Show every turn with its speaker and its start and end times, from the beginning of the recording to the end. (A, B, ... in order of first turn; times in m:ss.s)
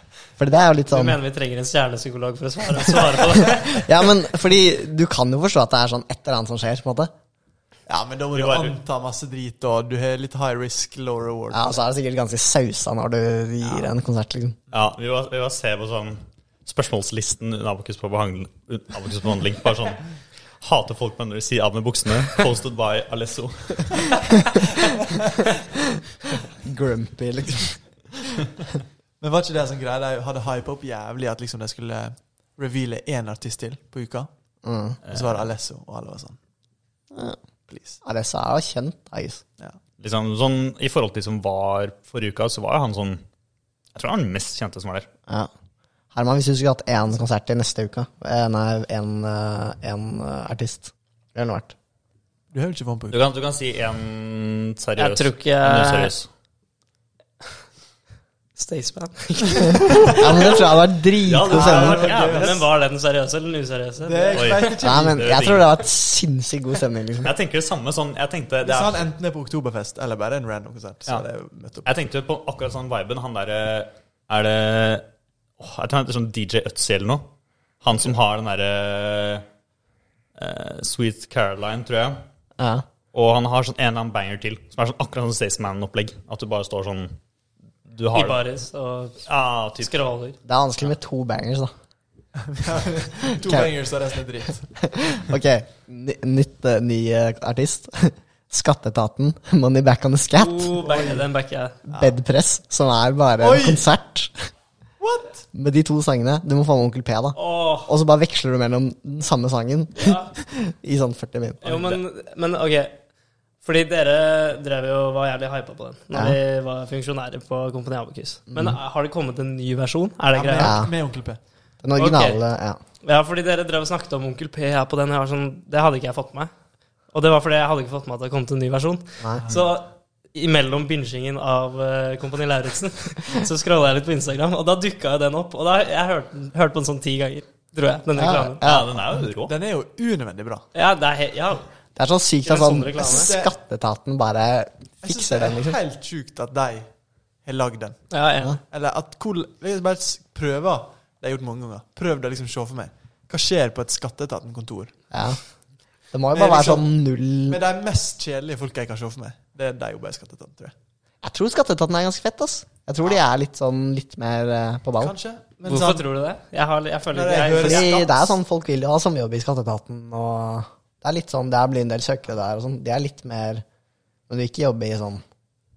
0:00.4-0:01.2 A
0:00.9-0:03.8 B
0:03.4-0:07.1 A
0:07.9-0:11.8 C
0:08.3-0:08.8 D
0:11.5-0:14.6 A
0:14.7-0:20.0 D
0:20.6-0:24.3 D
0:26.6-0:28.2 A
0:29.2-0:34.3 C
0:34.6-0:35.0 A
0:35.0-0:35.5 D
0:35.1-0:36.4 C
0:37.1-0:37.4 A
0:37.7-0:38.0 C
0:38.0-0:39.4 A
0:40.0-0:43.2 D
0:43.9-0:45.1 D
0:46.1-0:51.7 A
0:52.5-0:53.2 C
0:53.1-0:56.3 D
0:55.0-0:56.1 B
0:58.6-1:00.1 B
1:00.1-1:02.1 A
1:01.2-1:02.6 D
1:01.5-1:02.7 C
1:02.2-1:04.6 B
1:04.0-1:05.2 C
1:04.3-1:05.7 D
1:04.8-1:07.3 A
1:07.2-1:09.1 D
1:08.6-1:11.9 C
1:11.8-1:15.0 D
1:15.6-1:17.3 D
1:17.8-1:19.4 D
1:20.4-1:22.2 D
1:22.6-1:22.8 A
1:23.1-1:27.1 D
1:27.8-1:28.4 D
1:28.1-1:29.3 B
1:29.2-1:29.9 D
1:29.8-1:30.4 B
1:30.4-1:31.7 A
1:32.4-1:34.7 C
1:33.4-1:33.7 A
1:34.8-1:40.8 A
1:40.4-1:41.8 B
1:40.8-1:41.2 C
1:41.9-1:42.1 C
1:41.9-1:44.5 A
1:43.4-1:43.8 C
1:45.0-1:45.4 C
1:45.5-1:51.6 A
1:47.3-1:47.9 B
1:50.0-1:50.3 B
1:51.6-1:53.0 B
1:51.7-1:52.0 D
1:53.6-2:00.8 B
1:56.1-1:56.4 A
1:58.5-1:58.8 A
2:00.3-2:01.4 C
2:00.6-2:00.9 A
2:01.8-2:02.8 A
2:02.0-2:02.4 B
2:03.0-2:06.5 B
2:07.1-2:18.6 B
2:18.2-2:18.9 A
2:18.6-2:19.5 D
2:19.4-2:20.6 C
2:20.7-2:21.6 B
2:22.0-2:25.8 A
2:22.4-2:23.3 B
2:23.0-2:23.5 C
2:25.0-2:26.9 C
2:27.4-2:28.1 C
2:28.1-2:28.6 B
2:28.7-2:34.9 C
2:35.1-2:35.4 A
2:36.1-2:37.6 A
2:36.3-2:36.9 C
2:37.5-2:40.7 C
2:41.2-2:45.1 A
2:45.0-2:46.0 C
2:45.6-2:48.3 B
2:47.1-2:48.1 C
2:47.5-2:53.6 A
2:54.3-2:55.2 A